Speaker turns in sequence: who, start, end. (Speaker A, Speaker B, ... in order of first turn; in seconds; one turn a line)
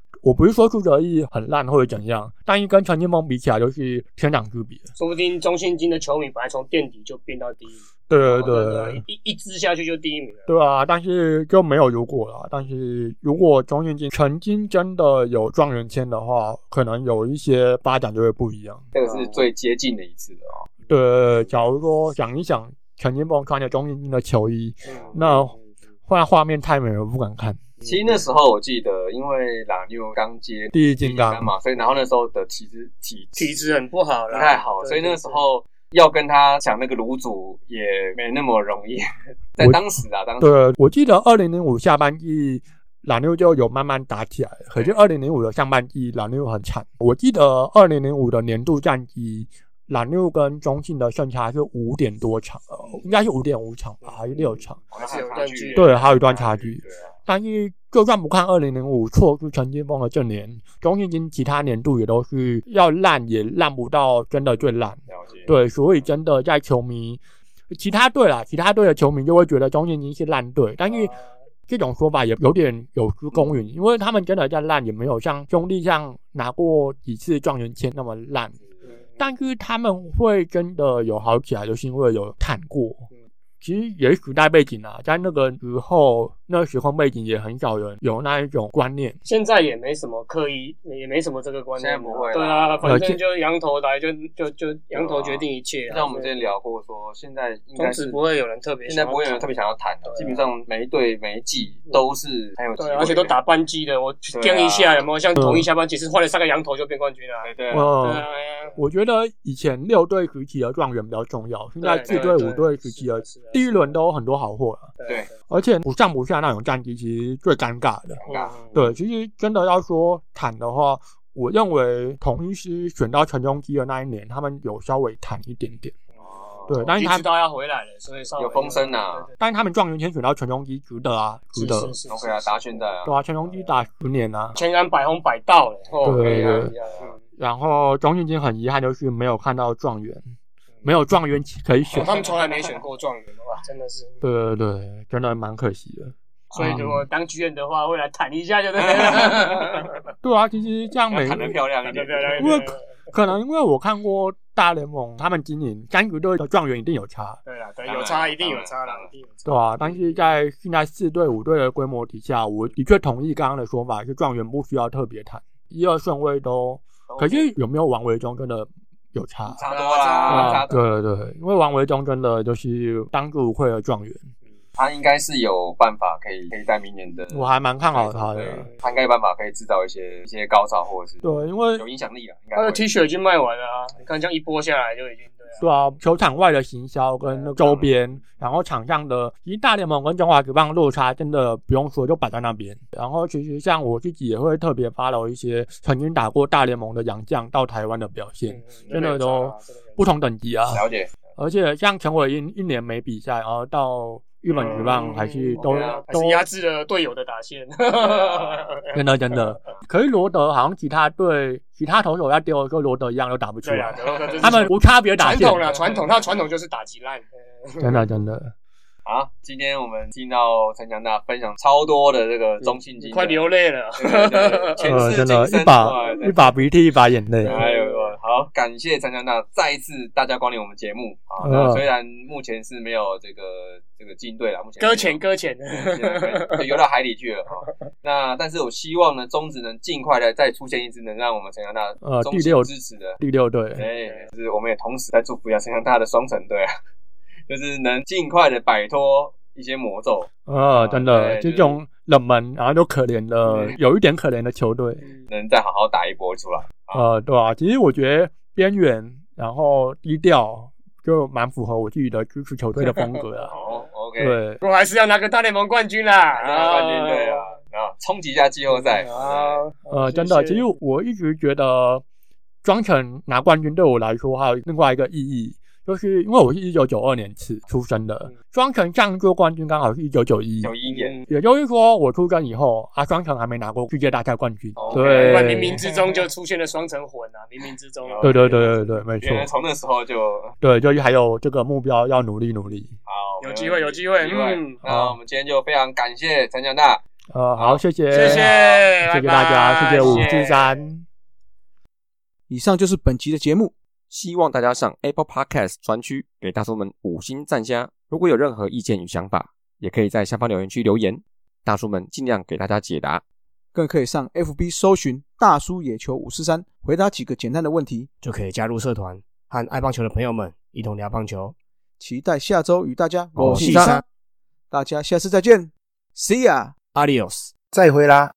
Speaker A: 0.2-4.9
Speaker B: 5.0-10.5
Speaker A: 8.1-9.0
Speaker A: 10.5-18.9
Speaker C: 18.9-20.7
Speaker B: 19.0-19.4
Speaker A: 20.9-25.5
Speaker B: 24.8-25.4
Speaker C: 24.9-25.1
Speaker A: 26.1-27.7
Speaker C: 27.8-33.6
Speaker A: 30.7-31.5
Speaker B: 33.4-35.4
Speaker C: 34.3-40.7
Speaker A: 40.4-54.8
Speaker C: 54.9-57.1
Speaker B: 54.9-56.0
Speaker A: 55.7-71.1
Speaker C: 65.1-65.5
Speaker B: 70.9-71.2
Speaker A: 71.7-78.5
Speaker B: 78.8-79.1
Speaker A: 79.2-83.1
Speaker A: 83.6-89.2
Speaker B: 89.2-96.4
Speaker C: 91.8-92.9
Speaker A: 92.8-93.2
Speaker C: 94.9-98.2
Speaker B: 97.8-99.5
Speaker C: 98.8-103.4
Speaker B: 100.0-100.4
Speaker B: 102.8-108.8
Speaker C: 104.3-105.1
Speaker A: 105.4-105.7
Speaker C: 107.4-107.9
Speaker A: 107.7-114.9
Speaker B: 111.8-113.6
Speaker C: 112.0-112.4
Speaker B: 115.0-115.3
Speaker A: 115.5-118.2
Speaker C: 118.2-118.6
Speaker B: 118.2-118.8
Speaker A: 118.7-125.9
Speaker C: 126.3-126.7
Speaker A: 126.7-127.3
Speaker B: 126.7-129.3
Speaker C: 128.4-129.3
Speaker A: 129.4-131.9
Speaker B: 131.5-132.6
Speaker C: 132.1-133.1
Speaker A: 133.0-134.6
Speaker B: 134.5-137.2
Speaker C: 136.0-137.1
Speaker A: 136.0-136.7
Speaker A: 137.4-140.2
Speaker A: 140.8-142.2
Speaker B: 141.9-144.2
Speaker A: 144.2-147.1
Speaker B: 146.5-150.0
Speaker C: 148.8-149.7
Speaker A: 150.2-151.6
Speaker C: 151.1-152.7
Speaker B: 151.8-152.8
Speaker A: 152.3-157.4
Speaker B: 157.4-160.0
Speaker C: 157.8-159.1
Speaker A: 159.4-169.6
Speaker C: 167.1-167.5
Speaker C: 169.5-170.9
Speaker B: 169.6-170.7
Speaker A: 170.3-174.3
Speaker C: 174.8-182.9
Speaker A: 177.3-178.7
Speaker A: 181.2-181.8
Speaker B: 182.5-185.7
Speaker A: 185.6-200.8
Speaker C: 187.6-187.9
Speaker B: 198.5-200.0
Speaker C: 198.8-199.1
Speaker C: 200.7-201.2
Speaker A: 201.3-206.4
Speaker B: 204.5-209.0
Speaker C: 204.6-205.1
Speaker C: 205.6-206.0
Speaker C: 208.0-208.6
Speaker A: 208.9-215.7
Speaker B: 213.6-218.0
Speaker C: 215.7-216.4
Speaker A: 217.8-218.5
Speaker C: 219.1-226.6
Speaker B: 223.0-225.1
Speaker A: 224.8-227.6
Speaker B: 227.4-228.1
Speaker C: 227.4-243.2
Speaker A: 231.4-231.8
Speaker B: 234.8-236.7
Speaker A: 242.0-243.8
Speaker C: 243.8-246.7
Speaker B: 243.9-244.3
Speaker C: 247.5-251.8
Speaker A: 250.5-255.0
Speaker C: 255.3-257.1
Speaker A: 256.9-263.5
Speaker B: 262.8-263.6
Speaker C: 263.5-264.4
Speaker A: 264.2-264.6
Speaker B: 264.6-267.5
Speaker C: 266.3-269.6
Speaker B: 268.7-270.7
Speaker A: 269.9-272.0
Speaker A: 272.6-280.7
Speaker C: 280.6-281.2
Speaker B: 280.9-281.3
Speaker A: 281.3-285.8
Speaker C: 284.8-286.3
Speaker B: 284.8-288.6
Speaker C: 288.0-290.6
Speaker A: 288.2-289.5
Speaker A: 290.6-292.9
Speaker C: 293.1-297.0
Speaker B: 293.4-294.8
Speaker A: 294.8-295.1
Speaker A: 297.3-301.1
Speaker C: 297.6-298.8
Speaker B: 298.1-300.6
Speaker C: 300.0-300.5
Speaker D: 302.5-303.7
Speaker E: 304.1-313.2
Speaker D: 313.7-318.1
Speaker F: 318.2-321.6
Speaker D: 322.0-324.0
Speaker F: 323.4-324.0
Speaker E: 323.6-323.9
Speaker D: 324.7-326.8
Speaker F: 326.8-327.6